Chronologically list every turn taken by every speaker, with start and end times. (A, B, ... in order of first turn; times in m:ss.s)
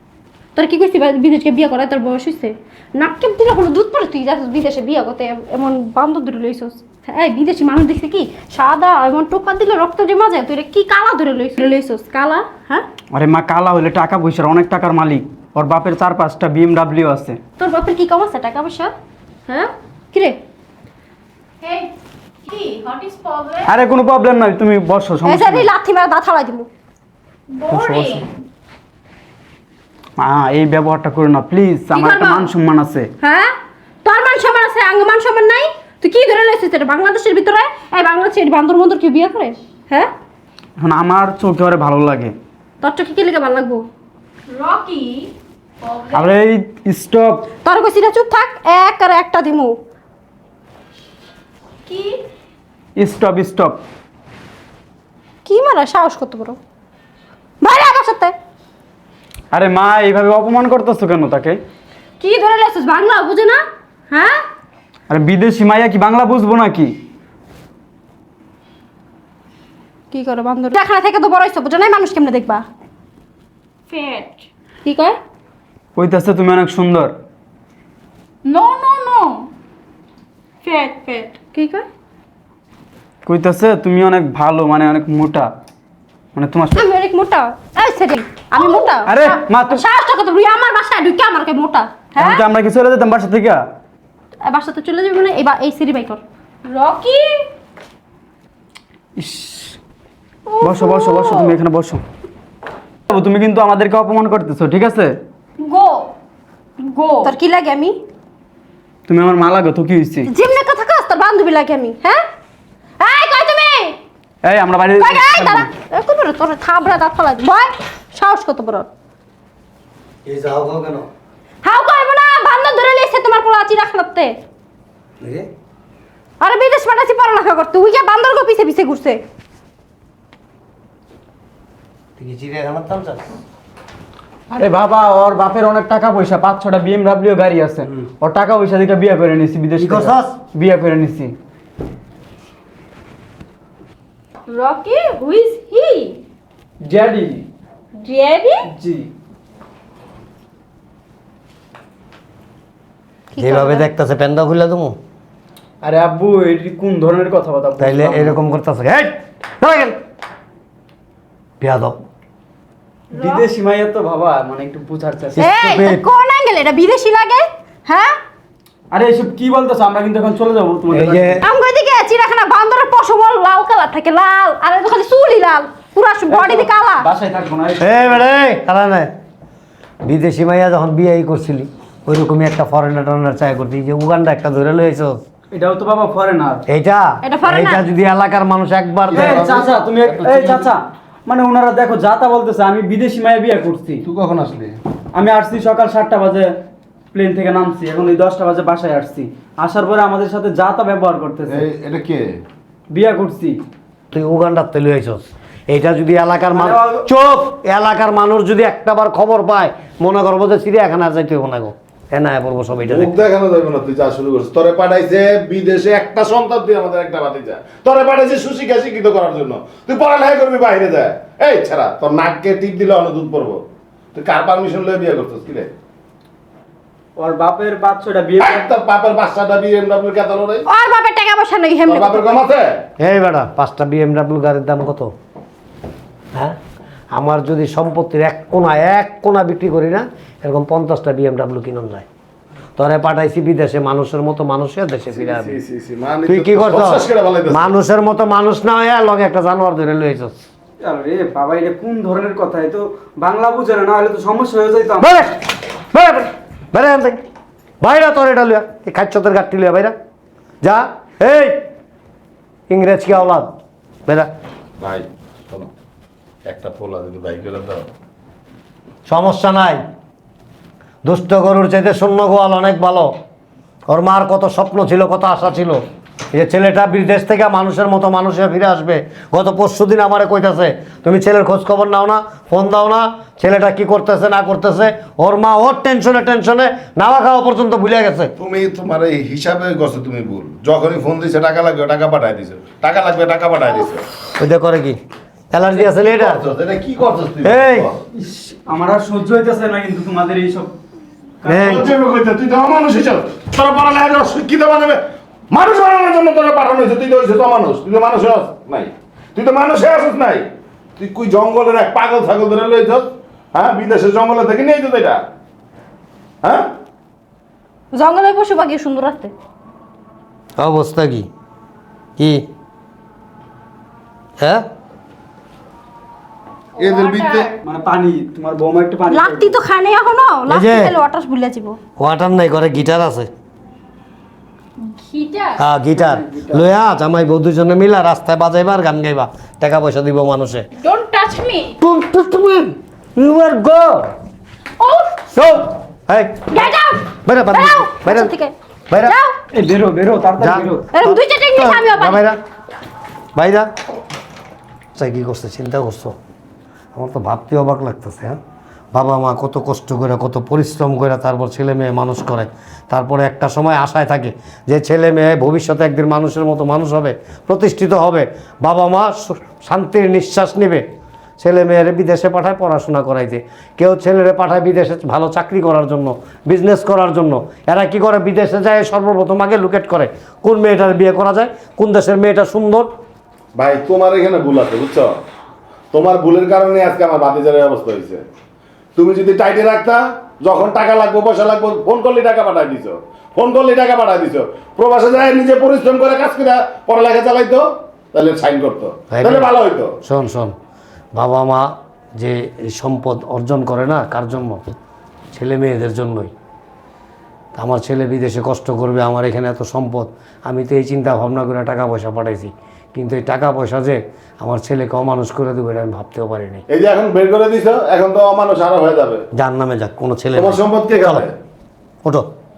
0:00.6-0:12.8 A
0:13.1-0:17.4 B
0:17.6-0:18.9 A
0:19.5-0:20.4 A
0:21.6-0:21.9 C
0:22.5-0:23.7 C
0:22.5-0:23.4 A
0:23.6-0:25.7 B
0:25.2-0:26.7 A
0:27.5-0:28.3 C
0:27.7-0:28.2 B
0:30.2-0:33.1 B
0:31.9-0:32.5 A
0:33.2-0:33.5 A
0:34.0-0:40.1 A
0:40.8-0:42.3 B
0:42.8-0:43.8 A
0:44.5-0:45.3 C
0:45.8-0:46.3 C
0:46.1-0:47.5 B
0:47.6-0:49.7 A
0:51.9-0:52.2 C
0:53.0-0:53.8 B
0:55.4-0:56.6 A
0:57.6-0:58.3 A
0:59.5-1:01.6 B
1:02.2-1:03.6 A
1:04.1-1:04.4 A
1:05.1-1:06.9 B
1:10.1-1:12.6 A
1:13.9-1:14.3 C
1:14.8-1:15.2 A
1:16.0-1:17.1 B
1:18.4-1:19.3 C
1:20.6-1:21.8 A
1:20.9-1:21.2 C
1:23.2-1:25.5 B
1:26.3-1:26.8 B
1:26.7-1:32.4 A
1:29.0-1:29.8 B
1:32.2-1:33.6 B
1:34.4-1:37.2 A
1:36.8-1:37.4 C
1:39.2-1:39.8 B
1:40.4-1:41.5 A
1:40.6-1:42.0 B
1:43.1-1:45.2 B
1:45.6-1:46.1 A
1:46.8-1:48.0 A
1:49.1-1:50.3 B
1:50.2-1:52.2 A
1:53.0-1:54.0 A
1:54.4-1:55.7 B
1:54.9-1:58.9 A
2:00.2-2:01.1 D
2:01.6-2:04.3 A
2:05.2-2:05.5 D
2:06.4-2:09.2 A
2:12.2-2:13.2 D
2:14.5-2:21.3 B
2:19.8-2:20.4 D
2:24.5-2:25.6 C
2:24.5-2:26.2 A
2:26.8-2:27.4 B
2:28.0-2:28.6 A
2:28.7-2:29.1 B
2:33.3-2:33.8 A
2:33.4-2:35.0 D
2:35.8-2:38.4 B
2:37.8-2:40.0 D
2:41.6-2:42.0 D
2:43.1-2:45.4 B
2:45.4-2:46.0 D
2:45.4-2:48.1 A
2:48.9-2:51.4 B
2:50.9-2:51.4 D
2:51.4-2:57.1 A
2:56.3-2:58.2 B
2:57.8-2:59.1 D
3:00.0-3:05.2 D
3:05.5-3:06.6 B
3:06.7-3:09.5 D
3:07.2-3:07.8 A
3:09.1-3:10.7 E
3:09.1-3:14.0 B
3:14.0-3:14.8 E
3:15.1-3:16.5 B
3:17.1-3:21.7 B
3:21.5-3:22.4 E
3:22.9-3:23.6 B
3:24.1-3:33.2 D
3:26.5-3:27.1 B
3:32.8-3:43.6 E
3:44.1-3:45.7 E
3:47.2-3:48.6 B
3:48.4-3:50.6 E
3:50.7-3:52.4 A
3:51.8-3:52.8 E
3:53.0-3:55.1 D
3:57.1-4:02.0 D
4:02.8-4:05.6 D
4:05.1-4:07.8 E
4:06.3-4:10.4 D
4:10.8-4:15.2 B
4:15.0-4:17.2 D
4:17.8-4:19.9 D
4:20.6-4:21.6 D
4:22.7-4:23.5 D
4:24.8-4:25.7 E
4:26.4-4:27.8 E
4:29.0-4:29.8 D
4:31.0-4:33.1 D
4:33.9-4:35.8 D
4:36.3-4:48.3 D
4:48.4-4:54.0 E
4:54.4-4:55.0 D
4:55.5-4:56.4 D
4:55.7-4:57.9 E
4:57.4-4:57.9 D
4:58.1-5:00.7 B
5:01.4-5:01.9 D
5:01.5-5:15.2 E
5:16.4-5:16.7 E
5:17.9-5:19.3 A
5:20.6-5:21.3 D
5:22.2-5:22.4 D
5:26.8-5:27.5 E
5:26.8-5:27.5 C
5:27.6-5:29.5 B
5:29.1-5:31.8 A
5:30.5-5:30.9 D
5:32.0-5:33.3 D
5:34.9-5:35.4 A
5:35.3-5:35.6 C
5:35.6-5:40.7 D
5:35.9-5:36.6 B
5:40.8-5:41.7 A
5:40.9-5:41.7 C
5:41.8-5:44.1 D
5:44.8-5:45.1 A
5:45.3-5:46.7 D
5:46.5-5:48.5 A
5:47.2-5:48.3 D
5:48.9-5:49.1 D
5:49.0-5:49.4 A
5:49.5-5:50.9 B
5:50.4-5:52.4 D
5:50.9-5:52.2 A
5:53.3-5:53.7 D
5:55.0-5:56.2 D
5:56.9-5:58.4 D
5:58.9-6:10.8 D
6:11.4-6:22.9 D
6:23.5-6:25.1 E
6:25.9-6:28.2 E
6:29.0-6:39.9 E
6:39.1-6:39.5 D
6:40.0-6:40.5 D
6:41.1-6:44.7 D
6:45.3-6:46.3 D
6:47.6-6:56.6 D
6:56.7-6:59.2 E
6:59.3-7:01.3 D
7:00.3-7:01.3 E